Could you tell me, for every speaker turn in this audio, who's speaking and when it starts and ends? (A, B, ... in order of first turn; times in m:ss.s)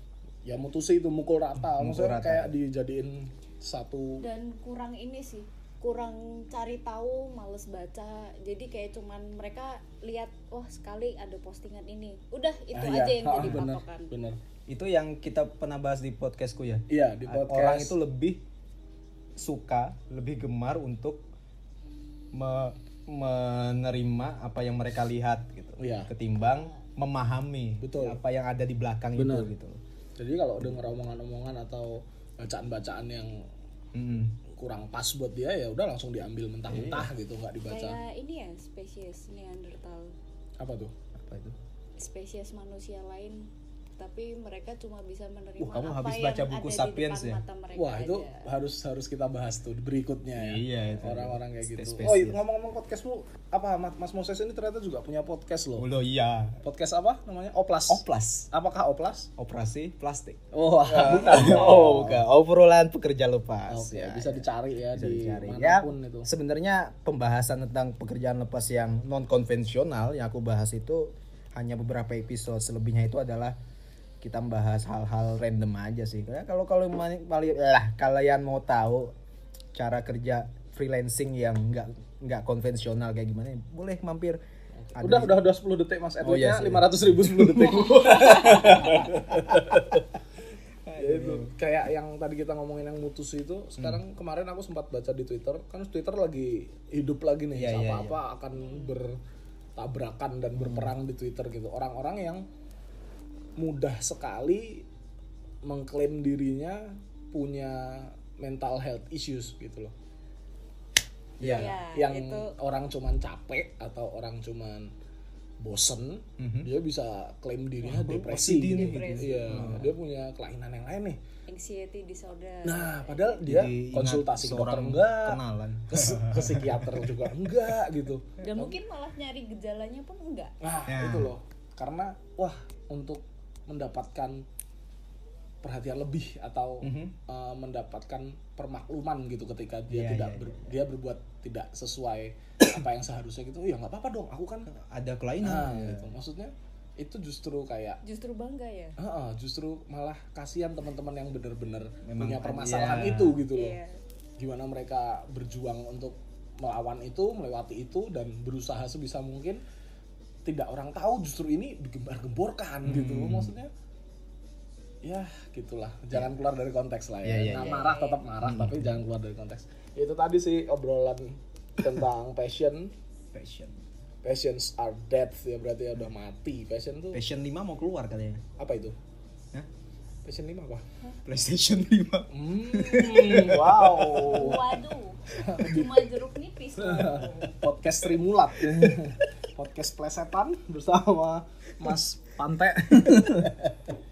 0:00.4-0:04.2 A
0:01.7-0:02.5 B
0:04.2-0:14.1 C
0:12.7-0:14.4 A
0:14.7-0:18.4 B
0:16.9-0:18.0 A
0:19.4-0:21.2 B
0:22.3-0:29.8 B
0:25.8-0:26.1 A
0:27.8-0:28.2 A
0:29.2-0:29.5 A
0:30.2-0:33.4 A
0:33.9-0:34.3 B
0:34.5-0:38.0 A
0:36.7-0:37.1 B
0:37.7-0:40.1 C
0:40.6-0:40.9 A
0:41.1-0:41.6 B
0:42.0-0:43.5 C
0:44.0-0:48.5 C
0:45.6-0:47.4 B
0:47.7-0:55.9 A
0:50.4-0:52.4 B
0:55.8-0:56.5 B
0:56.6-0:59.3 A
0:57.9-0:58.5 B
0:59.4-1:13.6 B
1:00.5-1:02.2 A
1:03.7-1:06.3 A
1:14.2-1:19.1 B
1:19.7-1:24.4 B
1:24.8-1:30.0 A
1:25.0-1:25.4 B
1:26.2-1:30.0 B
1:30.8-1:31.5 B
1:31.0-1:39.2 A
1:37.5-1:38.2 B
1:38.6-1:38.9 C
1:39.8-1:42.4 A
1:40.6-1:40.9 B
1:43.6-1:44.8 A
1:45.6-1:49.9 A
1:51.4-1:51.7 B
1:51.4-1:54.9 A
1:51.5-1:52.5 C
1:55.6-2:01.2 A
1:56.4-1:56.7 B
1:57.8-1:59.9 B
1:58.4-1:59.4 C
2:01.5-2:03.4 C
2:02.6-2:08.8 A
2:03.4-2:06.8 B
2:08.4-2:10.5 C
2:10.6-2:14.4 A
2:10.9-2:11.3 B
2:15.6-2:24.7 A
2:16.8-2:17.1 B
2:19.9-2:20.7 B
2:24.7-2:26.1 B
2:25.4-2:28.0 A
2:28.0-2:28.9 C
2:29.0-2:33.8 A
2:32.0-2:33.4 B
2:33.5-2:34.0 C
2:34.4-2:39.6 A
2:40.4-2:43.7 A
2:42.8-2:43.5 B
2:45.0-2:52.9 A
2:47.2-2:49.0 B
2:47.5-2:48.2 C
2:53.3-2:53.8 B
2:54.2-2:57.2 A
2:57.1-2:58.4 B
2:58.6-2:59.0 A
3:00.2-3:00.8 A
3:01.2-3:04.5 B
3:02.3-3:04.7 A
3:04.3-3:07.6 C
3:05.3-3:06.1 A
3:06.8-3:13.6 A
3:08.6-3:09.1 B
3:13.0-3:13.5 B